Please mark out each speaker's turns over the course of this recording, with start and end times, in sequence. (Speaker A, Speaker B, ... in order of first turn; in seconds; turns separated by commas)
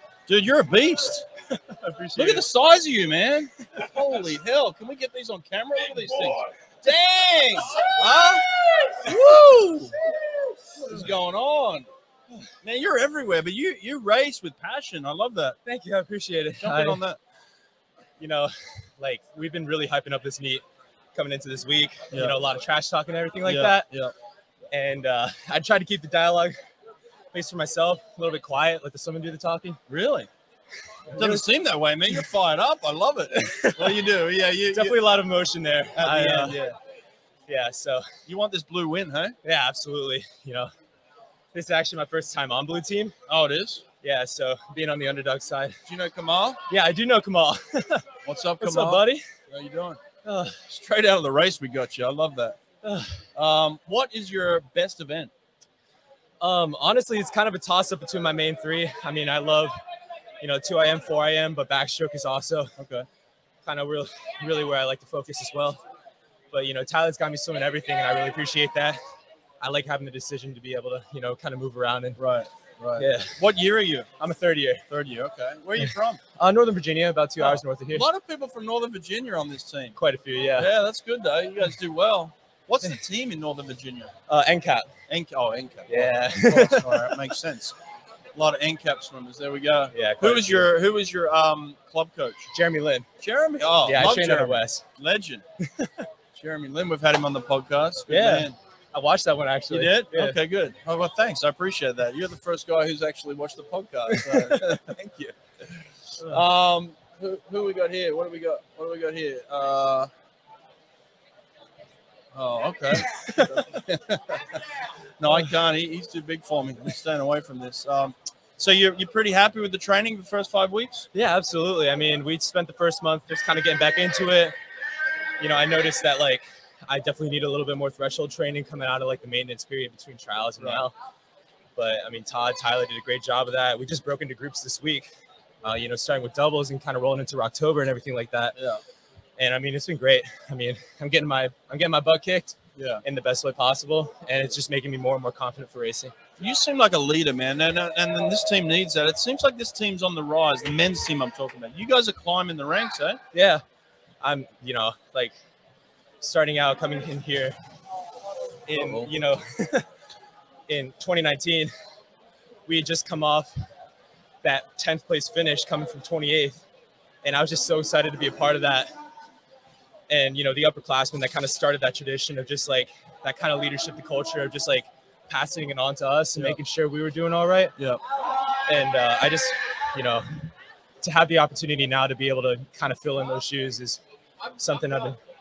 Speaker A: 0.3-1.2, Speaker B: 1.5-2.5, Speaker A: 2.2-10.0, Speaker A: 10.8-11.9, Speaker A: 12.6-15.6, Speaker B: 15.7-17.0, Speaker A: 16.6-17.2, Speaker B: 18.2-20.6, Speaker B: 21.1-23.9, Speaker A: 22.1-22.4, Speaker A: 23.4-24.1, Speaker B: 24.7-26.6, Speaker B: 27.3-29.8, Speaker A: 29.9-30.3, Speaker B: 31.1-31.5, Speaker A: 31.1-35.1, Speaker B: 33.4-34.0, Speaker B: 34.7-36.6, Speaker A: 36.0-36.8, Speaker B: 37.5-38.1, Speaker A: 38.3-39.4, Speaker B: 39.4-40.7, Speaker B: 41.5-43.2, Speaker A: 43.3-43.8, Speaker B: 44.0-45.8, Speaker A: 45.9-46.6, Speaker B: 46.7-48.1, Speaker A: 48.2-50.0, Speaker B: 48.6-49.3, Speaker B: 50.2-50.6, Speaker A: 50.7-52.6, Speaker B: 52.8-53.2, Speaker A: 53.4-55.3, Speaker B: 56.4-59.8, Speaker B: 60.4-62.7, Speaker A: 62.8-63.1, Speaker B: 63.6-65.8, Speaker B: 66.5-69.0, Speaker B: 69.6-72.2, Speaker A: 72.2-74.1, Speaker B: 73.0-73.5, Speaker B: 74.2-74.8, Speaker A: 74.9-76.2, Speaker B: 75.9-78.1, Speaker A: 77.4-80.0, Speaker B: 80.0-80.7, Speaker A: 80.6-84.1, Speaker B: 84.3-84.9, Speaker A: 85.1-87.8, Speaker B: 85.9-87.2, Speaker A: 88.3-92.5, Speaker B: 89.9-90.7, Speaker B: 92.5-93.1, Speaker A: 93.2-95.4, Speaker B: 93.8-94.8, Speaker B: 95.6-96.1, Speaker A: 96.3-98.6, Speaker B: 98.1-100.4, Speaker A: 99.7-104.8, Speaker B: 104.1-105.4, Speaker A: 106.2-110.1, Speaker A: 112.3-114.4, Speaker B: 113.2-113.8, Speaker A: 115.2-121.1, Speaker B: 121.1-124.5, Speaker B: 125.4-130.9, Speaker A: 130.6-130.9, Speaker B: 131.8-135.1, Speaker B: 135.6-138.6, Speaker A: 138.6-138.8, Speaker B: 139.4-146.1, Speaker A: 142.8-143.0, Speaker A: 146.4-153.2, Speaker B: 153.3-153.6, Speaker B: 154.2-155.3, Speaker B: 156.2-157.6, Speaker A: 158.7-159.1, Speaker B: 158.7-159.9, Speaker B: 160.7-161.7, Speaker B: 162.7-163.6, Speaker B: 164.4-166.6, Speaker B: 167.2-168.9, Speaker B: 170.1-177.8, Speaker A: 177.8-178.0, Speaker B: 178.7-180.3, Speaker B: 181.0-184.0, Speaker B: 184.6-185.2